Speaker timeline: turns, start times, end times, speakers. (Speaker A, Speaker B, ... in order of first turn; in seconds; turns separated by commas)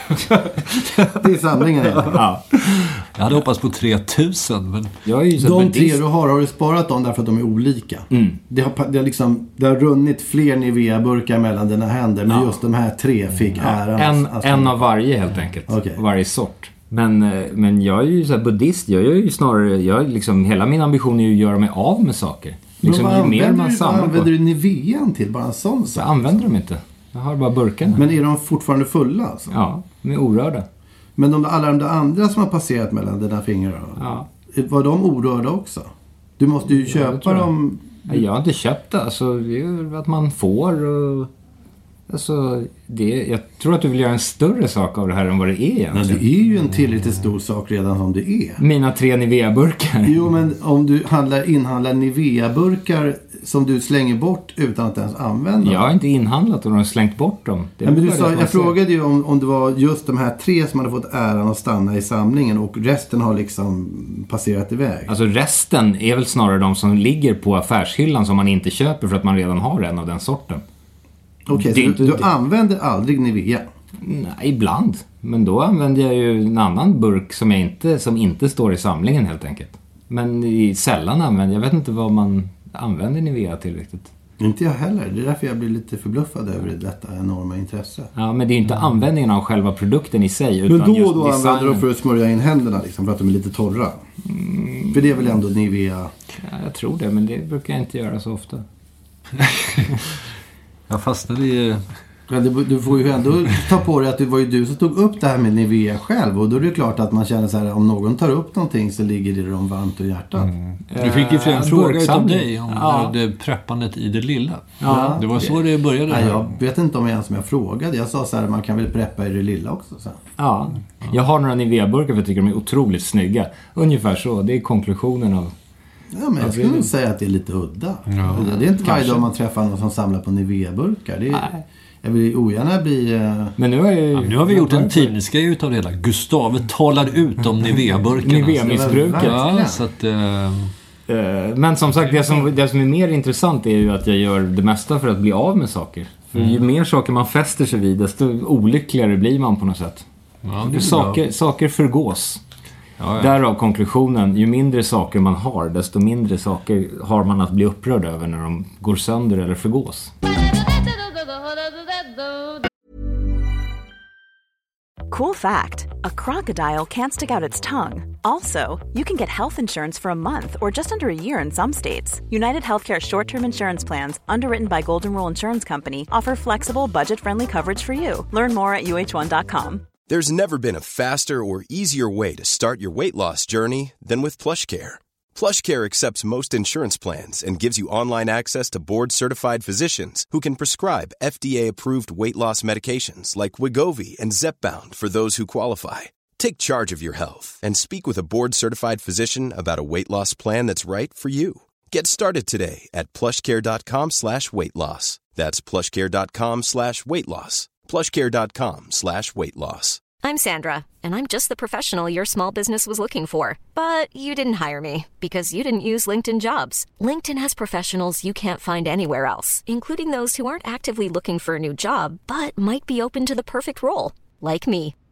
Speaker A: 1.1-2.2, Speaker B: 2.0-3.0, Speaker C: 3.1-4.9, Speaker B: 5.0-6.0, Speaker A: 5.4-14.8, Speaker B: 8.1-8.4, Speaker B: 13.6-24.3, Speaker A: 15.7-16.0, Speaker A: 22.8-26.4, Speaker B: 25.9-28.0, Speaker A: 28.0-29.6, Speaker B: 29.5-30.6, Speaker A: 31.2-38.2, Speaker B: 34.0-34.2, Speaker B: 36.7-37.5, Speaker B: 38.0-41.3, Speaker B: 42.1-46.2, Speaker A: 45.9-48.6, Speaker B: 48.6-50.1, Speaker A: 50.0-55.8, Speaker B: 55.6-58.7, Speaker A: 57.8-65.1, Speaker B: 65.1-70.6, Speaker A: 71.5-73.7, Speaker B: 71.5-72.3, Speaker B: 74.0-84.1, Speaker A: 84.4-88.1, Speaker B: 88.2-91.8, Speaker A: 90.7-94.0, Speaker B: 94.2-95.2, Speaker A: 94.9-96.1, Speaker B: 96.4-98.6, Speaker C: 99.4-100.0, Speaker C: 100.9-101.8, Speaker A: 102.3-110.5, Speaker C: 110.4-116.5, Speaker B: 110.9-113.1, Speaker B: 114.8-115.6, Speaker A: 114.9-115.5, Speaker A: 116.1-120.2, Speaker B: 120.4-125.5, Speaker A: 126.1-131.5, Speaker B: 126.4-126.9, Speaker C: 128.1-128.4, Speaker B: 128.3-129.2, Speaker B: 131.3-131.6, Speaker A: 132.0-133.6, Speaker B: 133.6-135.1, Speaker C: 134.1-140.7, Speaker B: 138.2-139.4, Speaker A: 138.6-139.8, Speaker B: 141.1-150.1, Speaker C: 150.4-151.2, Speaker B: 150.6-152.4, Speaker C: 153.0-153.3, Speaker B: 153.2-160.1, Speaker D: 165.1-179.9, Speaker E: 180.1-210.0, Speaker F: 210.2-224.9